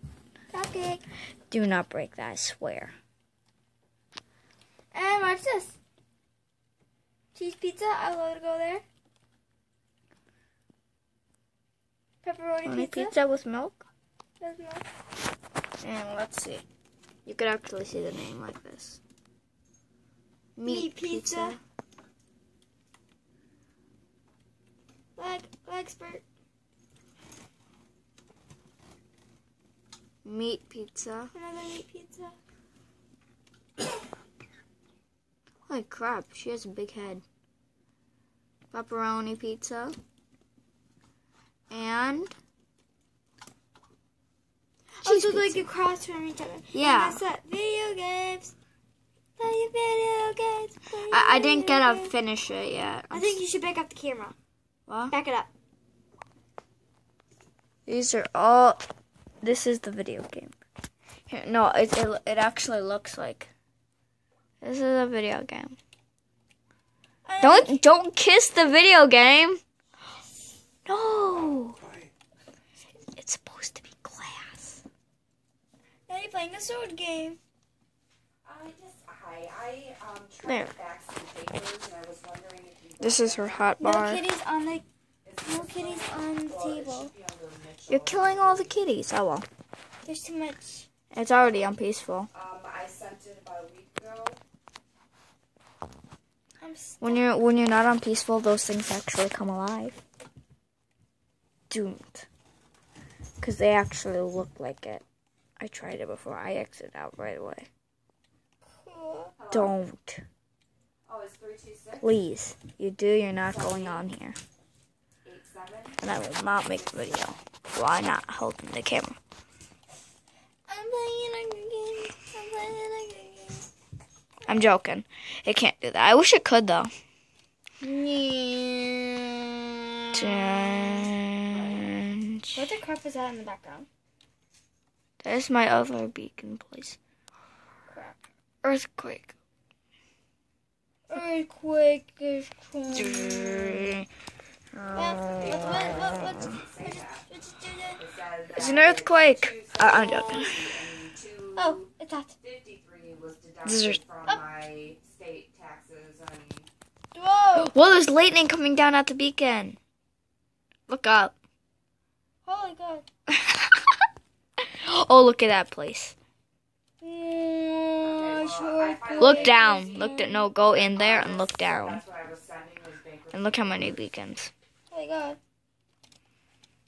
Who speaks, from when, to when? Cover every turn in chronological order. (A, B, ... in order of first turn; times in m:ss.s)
0:00.5-0:01.0 A
0:01.5-0:02.9 B
0:04.9-0:05.8 A
0:07.3-0:08.8 A
0:12.2-0:13.1 A
0:12.6-0:13.8 B
0:14.4-0:14.9 A
0:15.8-0:16.6 B
0:17.2-0:19.0 B
0:20.6-0:21.6 B
0:20.6-0:21.6 A
0:25.2-0:26.2 A
0:30.2-0:31.3 B
0:31.3-0:32.3 A
0:35.7-0:37.2 B
0:38.7-0:40.0 B
0:41.7-0:42.3 B
0:45.0-0:45.7 B
0:45.0-0:48.5 A
0:46.7-0:47.2 B
0:49.4-0:52.1 A
0:51.1-0:53.4 B
0:53.1-0:54.3 A
0:54.9-0:55.1 B
0:55.1-0:55.5 A
0:57.8-0:58.8 B
0:59.4-1:00.5 B
1:01.3-1:03.5 B
1:04.6-1:05.8 B
1:07.2-1:07.8 A
1:07.4-1:09.6 B
1:10.8-1:11.8 B
1:13.1-1:14.8 B
1:16.1-1:17.4 A
1:18.4-1:23.8 C
1:20.4-1:20.7 B
1:23.0-1:24.2 B
1:23.8-1:24.8 A
1:25.2-1:28.8 C
1:25.4-1:27.1 A
1:27.9-1:29.4 B
1:30.0-1:30.9 A
1:31.1-1:32.3 B
1:32.3-1:34.4 C
1:36.6-1:37.2 A
1:37.0-1:40.0 B
1:41.7-1:42.3 B
1:43.4-1:45.0 B
1:45.6-1:47.7 B
1:48.6-1:49.3 A
1:49.4-1:49.8 C
1:49.5-1:50.2 B
1:51.0-1:52.2 C
1:52.0-1:54.4 B
1:53.4-1:54.0 C
1:55.2-1:56.0 C
1:56.0-1:59.2 B
1:56.7-1:57.2 C
2:00.7-2:03.6 A
2:04.5-2:06.9 B
2:07.8-2:10.2 A
2:10.1-2:12.6 B
2:12.5-2:13.9 A
2:15.2-2:17.0 B
2:18.6-2:19.3 B
2:21.1-2:23.9 A
2:22.9-2:24.0 B
2:24.7-2:26.4 B
2:24.9-2:28.0 A
2:25.3-2:27.3 C
2:28.0-2:36.7 C
2:28.5-2:30.6 B
2:29.8-2:30.4 A
2:31.6-2:32.3 A
2:33.6-2:34.0 B
2:37.1-2:37.7 A
2:37.5-2:39.8 B
2:40.9-2:41.3 B
2:42.4-2:43.0 A
2:43.3-2:43.9 B
2:44.6-2:46.1 B
2:47.0-2:50.4 A
2:48.0-2:54.0 C
2:49.2-2:52.0 B
2:53.3-2:54.5 B
2:54.9-2:55.4 A